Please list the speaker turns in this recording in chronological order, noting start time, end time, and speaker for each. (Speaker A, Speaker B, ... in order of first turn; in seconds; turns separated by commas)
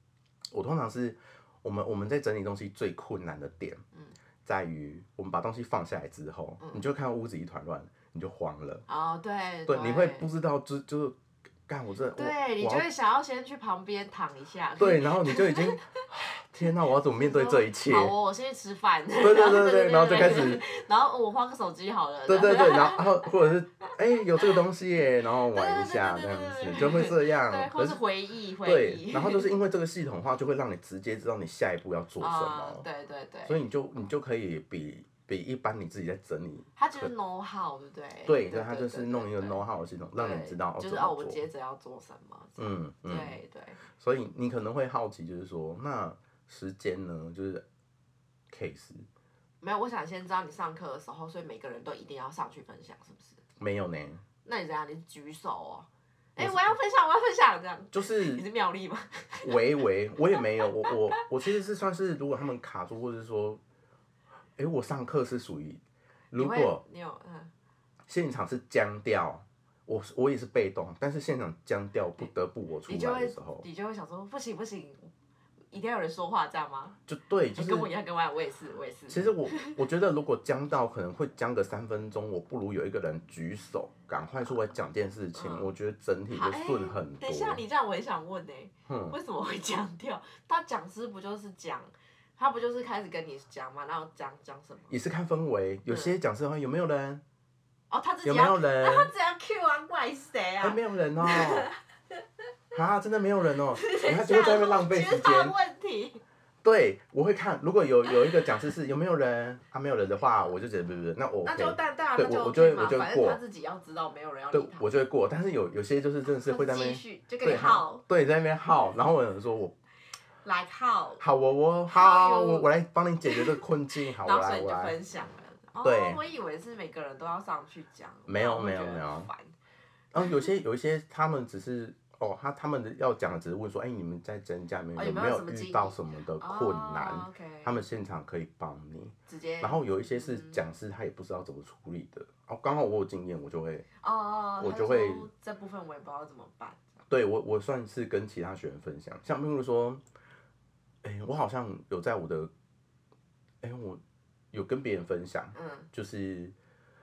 Speaker A: 0.5-3.8, Speaker A: 4.4-8.8, Speaker B: 6.6-6.8, Speaker B: 8.9-10.3, Speaker A: 9.7-12.9, Speaker B: 12.2-16.0, Speaker A: 14.8-18.1, Speaker B: 17.1-23.3, Speaker A: 19.2-20.6, Speaker A: 22.3-28.0, Speaker B: 25.5-29.5, Speaker A: 28.6-32.9, Speaker B: 32.2-33.6, Speaker A: 33.5-37.1, Speaker B: 36.8-39.6, Speaker A: 38.3-41.4, Speaker B: 40.2-43.8, Speaker A: 42.6-43.4, Speaker A: 43.9-47.6, Speaker A: 48.5-49.1, Speaker B: 49.6-53.4, Speaker A: 53.6-54.2, Speaker B: 54.4-61.2, Speaker A: 56.4-56.8, Speaker A: 57.9-58.4, Speaker A: 59.4-63.6, Speaker A: 64.6-66.8, Speaker B: 66.3-67.5, Speaker A: 68.1-73.7, Speaker B: 72.9-75.1, Speaker B: 75.7-77.0, Speaker A: 77.1-77.9, Speaker B: 77.5-79.8, Speaker A: 79.1-87.6, Speaker B: 85.3-85.7, Speaker B: 86.3-94.9, Speaker A: 88.9-89.2, Speaker A: 94.9-97.2, Speaker B: 95.9-96.2, Speaker B: 97.9-101.7, Speaker A: 98.2-99.1, Speaker A: 100.6-101.7, Speaker A: 102.7-105.5, Speaker B: 103.7-106.2, Speaker A: 106.6-113.4, Speaker B: 111.4-114.9, Speaker A: 114.5-119.7, Speaker B: 116.4-118.0, Speaker B: 120.4-121.2, Speaker A: 121.2-125.0, Speaker B: 121.9-122.7, Speaker B: 123.3-129.5, Speaker A: 125.8-126.2, Speaker A: 128.3-129.3, Speaker A: 130.1-143.9, Speaker B: 130.2-130.4, Speaker B: 134.9-137.8, Speaker B: 139.3-140.6, Speaker B: 144.0-146.9, Speaker A: 144.6-145.3, Speaker A: 147.1-150.0, Speaker A: 151.0-152.5, Speaker A: 153.6-154.0, Speaker A: 154.5-156.5, Speaker B: 155.6-155.9